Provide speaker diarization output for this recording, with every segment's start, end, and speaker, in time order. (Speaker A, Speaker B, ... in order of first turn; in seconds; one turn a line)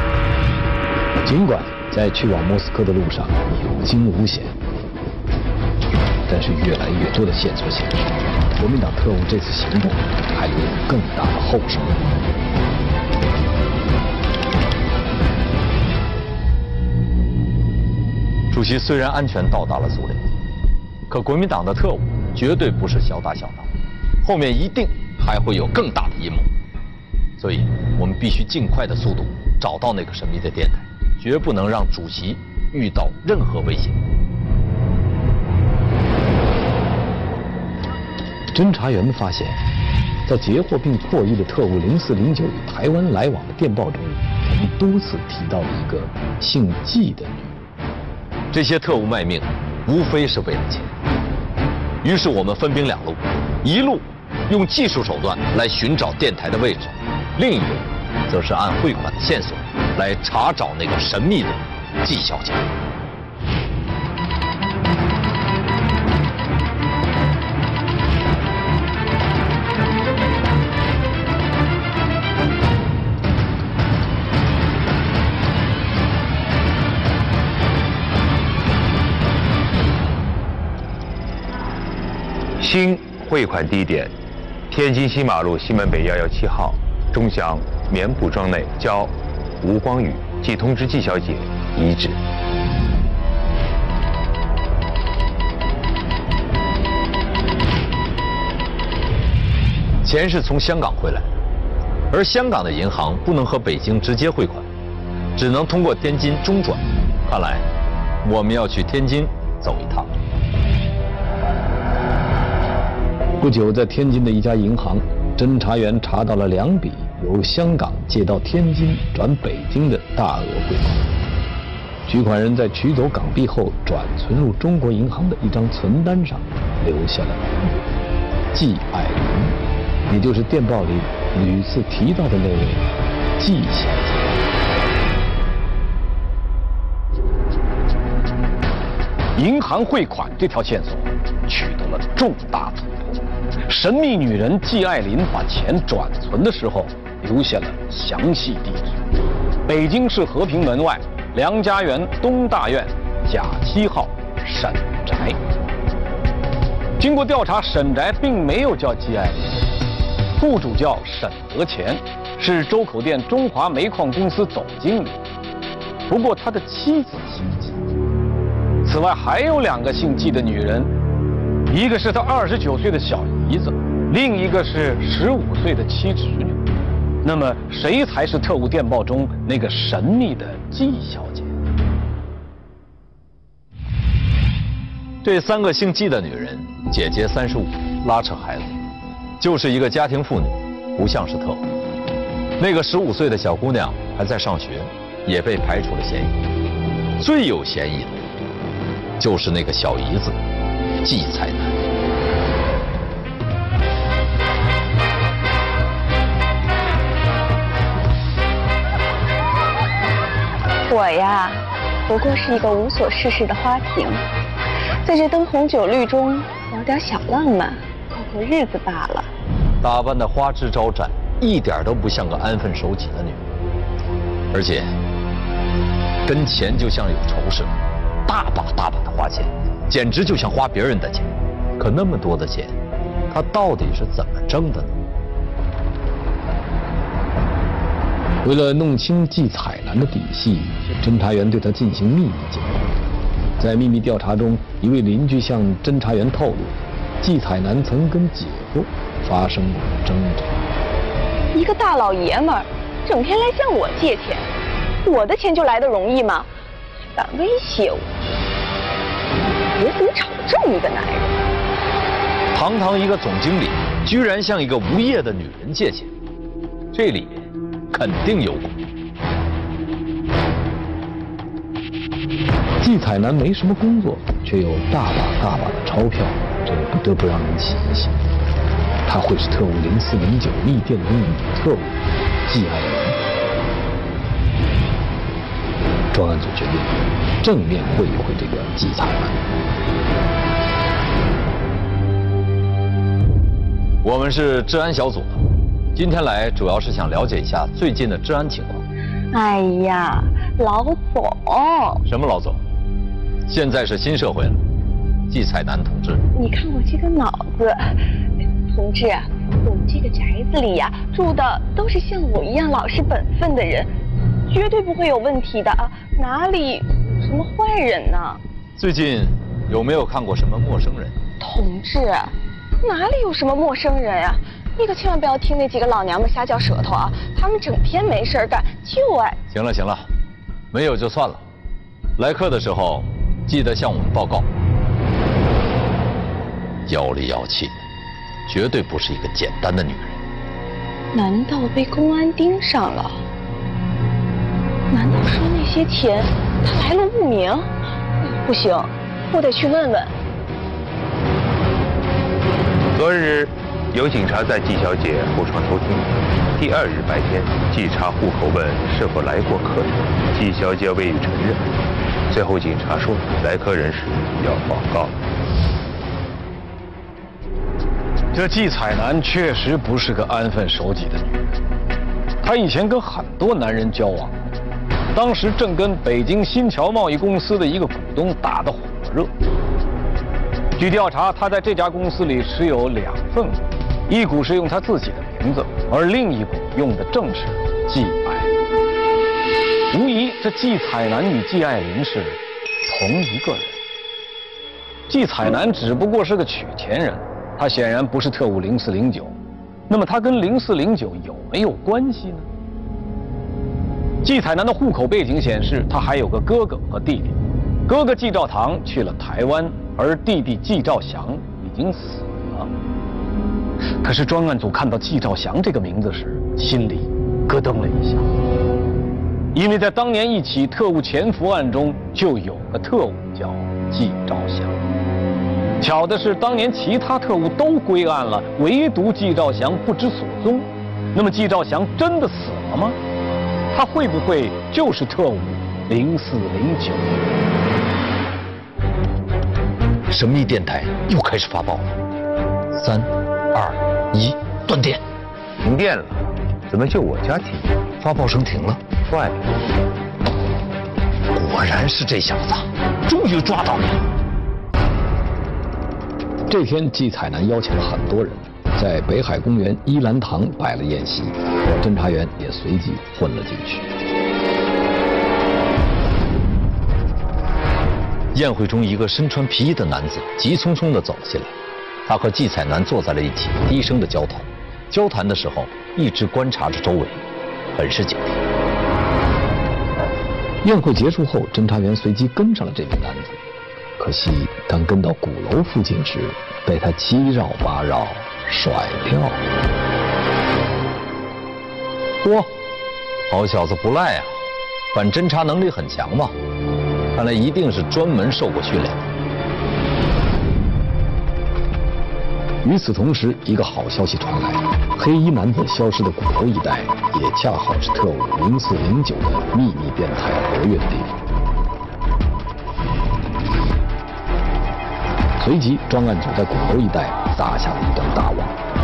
Speaker A: 1.2-4.6
Speaker A: 6.3-12.1
Speaker B: 18.5-20.3
Speaker B: 21.1-23.7
Speaker B: 24.2-26.5
Speaker B: 27.4-34.0
Speaker A: 38.5-39.6
Speaker A: 40.2-47.6
Speaker B: 48.5-50.9
Speaker B: 52.0-62.6
Speaker C: 82.6-84.1
Speaker C: 84.7-92.2
Speaker B: 100.0-101.3
Speaker B: 102.1-104.7
Speaker B: 105.3-107.7
Speaker B: 108.2-110.1
Speaker A: 113.4-121.1
Speaker A: 122.1-127.9
Speaker A: 128.5-134.4
Speaker D: 139.3-149.0
Speaker D: 149.7-155.4
Speaker D: 157.0-159.7
Speaker D: 160.4-165.2
Speaker D: 166.1-167.8
Speaker D: 168.8-170.9
Speaker D: 171.7-176.7
Speaker D: 177.2-181.5
Speaker B: 185.2-188.8
Speaker B: 189.4-191.7
Speaker B: 192.6-196.4
Speaker B: 197.2-198.2
Speaker B: 199.2-200.4
Speaker B: 201.0-201.7
Speaker E: 210.9-214.3
Speaker E: 215.0-219.3
Speaker B: 219.8-223.4
Speaker B: 224.5-224.9
Speaker B: 226.2-227.7
Speaker B: 228.3-232.8
Speaker B: 233.3-235.0
Speaker A: 238.4-243.0
Speaker A: 243.6-250.7
Speaker E: 251.5-254.5
Speaker E: 255.0-256.5
Speaker E: 257.1-258.1
Speaker E: 259.8-261.3
Speaker B: 262.5-266.1
Speaker B: 266.9-268.8
Speaker A: 272.8-278.2
Speaker A: 279.1-283.2
Speaker A: 286.1-289.4
Speaker B: 294.0-295.4
Speaker B: 295.9-298.9
Speaker E: 299.3-302.0
Speaker B: 302.1-302.6
Speaker B: 303.5-304.6
Speaker B: 305.3-306.2
Speaker E: 306.3-308.0
Speaker E: 308.7-313.9
Speaker E: 314.5-318.4
Speaker B: 318.8-321.2
Speaker E: 321.4-329.4
Speaker B: 329.5-330.1
Speaker B: 330.7-331.4
Speaker B: 332.2-334.5
Speaker B: 336.9-337.8
Speaker B: 338.5-340.2
Speaker E: 341.1-343.2
Speaker E: 344.9-347.7
Speaker E: 348.2-350.1
Speaker C: 352.9-361.6
Speaker C: 362.3-365.2
Speaker D: 368.3-371.5
Speaker D: 372.4-374.4
Speaker D: 375.1-379.3
Speaker D: 380.8-388.5
Speaker D: 389.9-393.8
Speaker D: 395.1-399.4
Speaker D: 399.9-402.5
Speaker D: 404.2-412.7
Speaker D: 414.0-418.3
Speaker D: 419.5-424.8
Speaker D: 425.8-433.0
Speaker D: 433.7-437.2
Speaker B: 440.1-441.9
Speaker B: 442.7-445.0
Speaker C: 445.6-447.8
Speaker B: 448.0-448.8
Speaker C: 449.0-449.4
Speaker B: 451.3-454.1
Speaker A: 456.5-463.9
Speaker B: 468.3-471.5
Speaker B: 472.1-477.2
Speaker B: 477.7-478.4
Speaker A: 480.6-483.4
Speaker A: 484.0-489.5
Speaker B: 492.2-492.5
Speaker B: 493.3-494.4
Speaker B: 494.9-496.3
Speaker B: 497.1-499.0
Speaker A: 502.6-511.1
Speaker A: 515.4-518.6